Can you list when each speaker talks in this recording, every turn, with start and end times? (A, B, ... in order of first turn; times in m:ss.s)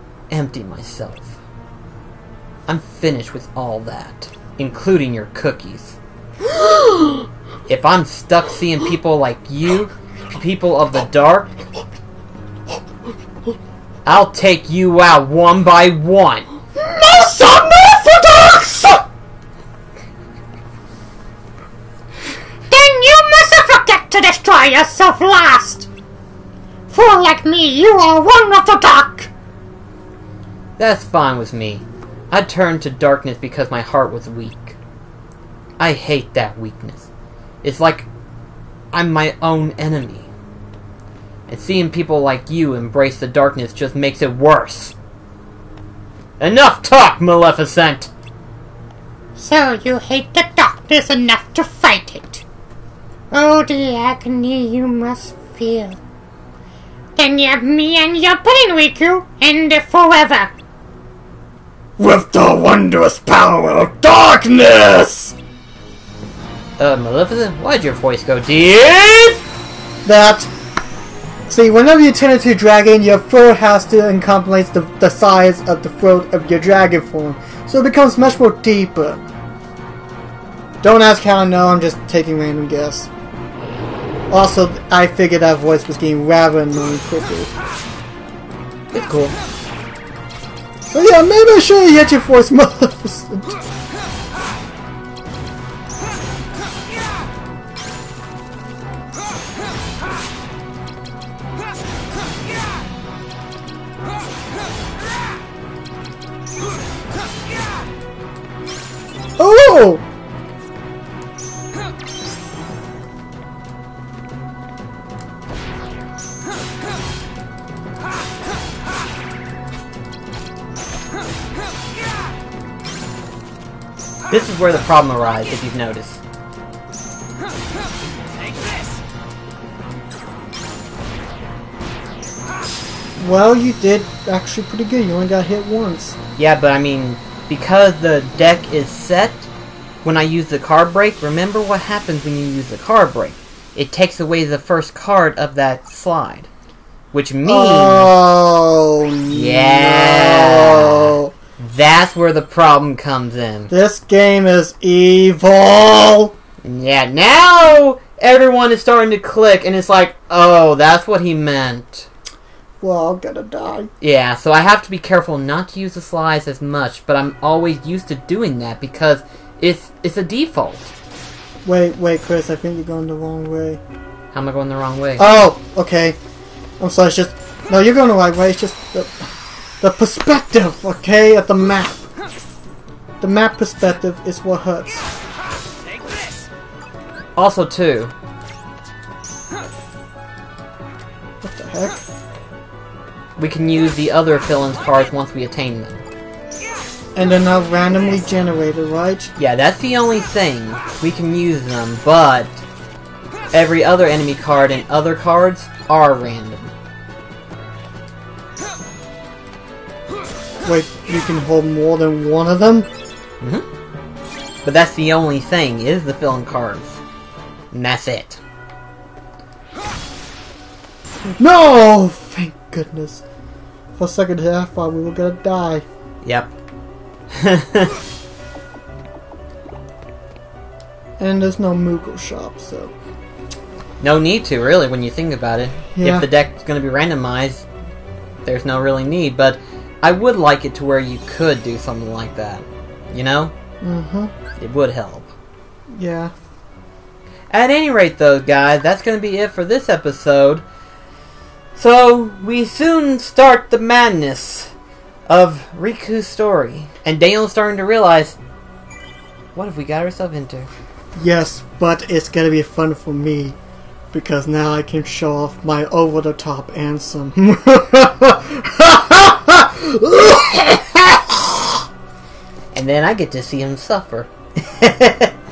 0:00.3-0:01.4 A
0:02.7-0:06.0 A
0:07.7-0:11.5 A
0:14.1-0:16.5 A
0:16.8-0:19.0 B
0:22.7-0:25.9 C
0:26.9-0:29.3 C
0:30.8-0:34.8 A
0:35.8-0:37.1 A
0:37.6-0:38.1 A
0:38.9-0:40.3 A
0:41.5-0:45.0 A
0:46.4-0:48.1 A
0:49.4-0:52.4 C
0:53.3-0:56.0 C
0:57.2-1:00.5 C
1:02.0-1:05.4 B
1:06.8-1:09.4 A
1:10.0-1:10.5 B
1:11.5-1:19.2 B
1:20.8-1:23.1 B
1:24.3-1:27.5 B
1:28.9-1:29.4 A
1:30.9-1:33.6 B
1:49.4-1:50.0 B
2:04.3-2:06.2 A
2:13.2-2:16.2 B
2:16.4-2:19.5 A
2:20.0-2:26.5 A
2:27.1-2:28.2 A
2:27.4-2:31.3 B
2:29.3-2:33.7 A
2:33.7-2:36.4 B
2:36.6-2:42.1 A
2:42.8-2:43.9 B
2:44.0-2:50.9 A
2:51.6-2:53.8 B
2:54.3-2:55.3 A
2:55.2-2:56.2 B
2:56.8-2:59.3 B
2:59.8-3:02.0 B
3:03.2-3:05.1 B
3:07.4-3:08.1 A
3:11.4-3:12.0 B
3:13.4-3:16.0 A
3:17.2-3:19.3 B
3:19.4-3:22.6 A
3:23.5-3:26.7 A
3:30.6-3:32.9 B
3:33.4-3:33.7 A
3:34.6-3:37.0 A
3:37.7-3:38.4 A
3:41.4-3:43.2 B
3:44.0-3:45.8 B
3:46.2-3:46.5 A
3:47.3-3:48.0 A
3:51.2-3:52.9 B
3:54.0-3:57.7 A
3:55.9-3:56.3 B
3:58.4-4:03.5 A
4:03.8-4:04.3 B
4:04.6-4:05.3 A
4:05.9-4:06.3 B
4:07.5-4:10.6 A
4:11.8-4:14.7 A
4:15.3-4:18.4 A
4:19.6-4:20.7 A
4:21.2-4:23.6 B
4:24.1-4:31.8 B
4:32.7-4:35.4 A